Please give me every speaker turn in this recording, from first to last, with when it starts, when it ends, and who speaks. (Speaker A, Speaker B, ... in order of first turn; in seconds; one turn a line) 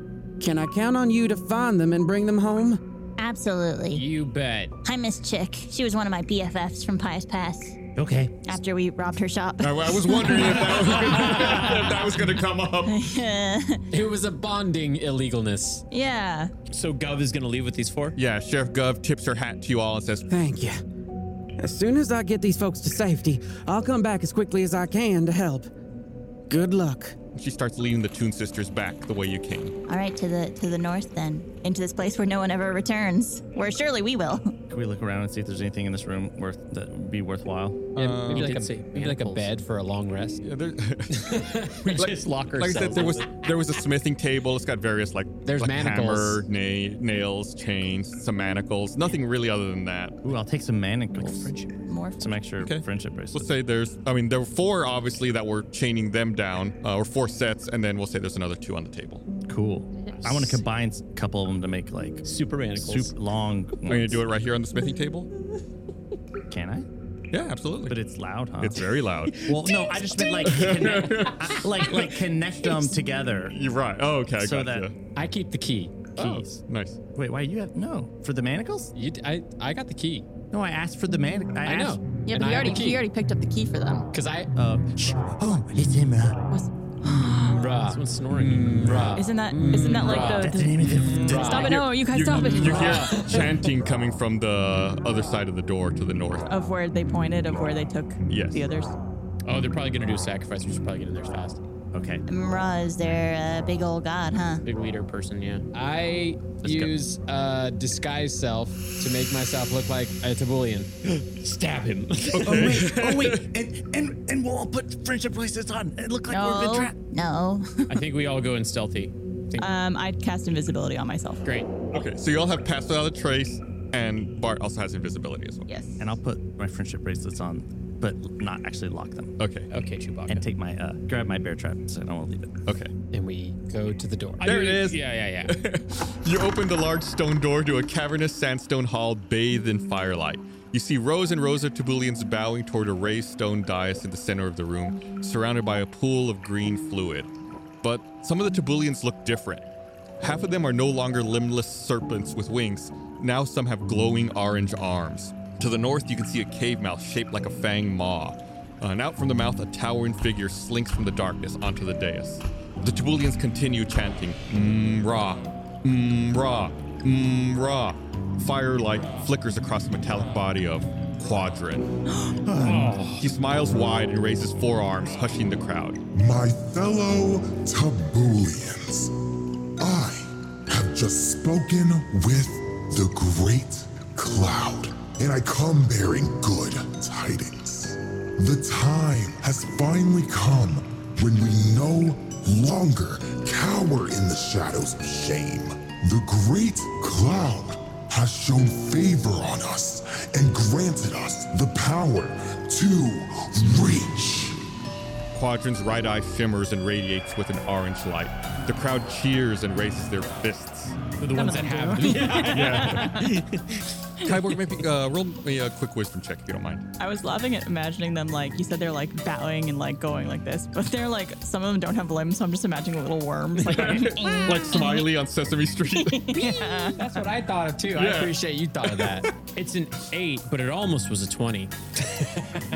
Speaker A: 0.4-2.8
Speaker B: 3.2-4.1
Speaker C: 3.9-4.7
Speaker B: 4.8-7.8
Speaker D: 8.0-8.4
Speaker B: 8.5-10.5
Speaker E: 9.6-13.0
Speaker F: 10.1-10.7
Speaker F: 11.4-11.7
Speaker F: 12.9-13.2
Speaker B: 13.0-13.8
Speaker C: 13.9-15.8
Speaker F: 15.9-16.5
Speaker G: 16.7-18.1
Speaker E: 18.1-20.3
Speaker A: 20.3-20.8
Speaker A: 21.6-25.7
Speaker A: 26.5-27.1
Speaker E: 27.3-29.8
Speaker B: 29.9-34.5
Speaker D: 34.7-37.9
Speaker E: 38.0-38.6
Speaker C: 38.0-40.4
Speaker G: 38.1-39.5
Speaker E: 40.4-50.2
Speaker G: 41.7-43.5
Speaker C: 45.4-46.5
Speaker D: 50.2-51.5
Speaker G: 51.1-51.8
Speaker F: 51.9-52.4
Speaker D: 52.2-53.5
Speaker E: 52.6-59.2
Speaker D: 59.5-64.2
Speaker G: 60.0-60.6
Speaker G: 62.2-63.1
Speaker E: 63.9-65.3
Speaker D: 66.5-66.8
Speaker E: 67.3-68.0
Speaker D: 67.8-73.5
Speaker E: 68.6-69.5
Speaker G: 69.4-70.6
Speaker E: 70.4-72.1
Speaker E: 73.5-74.9
Speaker D: 74.3-74.9
Speaker C: 75.1-76.1
Speaker E: 76.2-77.0
Speaker D: 76.2-76.6
Speaker D: 77.1-78.9
Speaker C: 78.9-80.2
Speaker D: 80.5-82.0
Speaker C: 81.7-83.0
Speaker F: 82.3-84.1
Speaker C: 84.1-84.5
Speaker D: 84.5-86.4
Speaker F: 86.5-87.6
Speaker C: 87.5-91.8
Speaker G: 87.9-90.3
Speaker F: 89.1-93.2
Speaker D: 90.4-91.7
Speaker G: 90.9-91.5
Speaker E: 91.5-96.5
Speaker C: 92.5-93.5
Speaker F: 96.5-98.9
Speaker E: 98.3-98.6
Speaker G: 99.4-101.6
Speaker D: 101.9-102.2
Speaker B: 102.3-104.6
Speaker G: 104.6-105.7
Speaker C: 105.7-110.9
Speaker G: 111.0-112.8
Speaker D: 112.3-116.9
Speaker E: 112.3-113.4
Speaker F: 116.3-116.9
Speaker B: 117.0-117.9
Speaker G: 117.9-119.7
Speaker F: 119.6-121.4
Speaker G: 121.4-121.7
Speaker E: 121.9-125.7
Speaker F: 125.7-126.0
Speaker D: 126.0-129.3
Speaker E: 129.4-129.7
Speaker G: 129.7-130.4
Speaker D: 130.3-132.5
Speaker C: 133.1-134.5
Speaker G: 134.4-135.5
Speaker E: 134.4-147.3
Speaker E: 147.8-149.7
Speaker E: 150.2-171.9
Speaker D: 172.4-173.2
Speaker G: 172.6-173.2
Speaker E: 173.1-176.0
Speaker H: 176.1-179.1
Speaker H: 179.8-204.6
Speaker E: 205.3-211.0
Speaker G: 211.2-214.3
Speaker F: 211.3-213.4
Speaker E: 212.4-213.3
Speaker E: 214.2-216.9
Speaker F: 217.0-225.1
Speaker E: 223.7-226.3
Speaker F: 226.0-227.0
Speaker G: 226.3-227.0
Speaker C: 227.0-229.3
Speaker E: 227.9-229.1
Speaker G: 229.4-232.3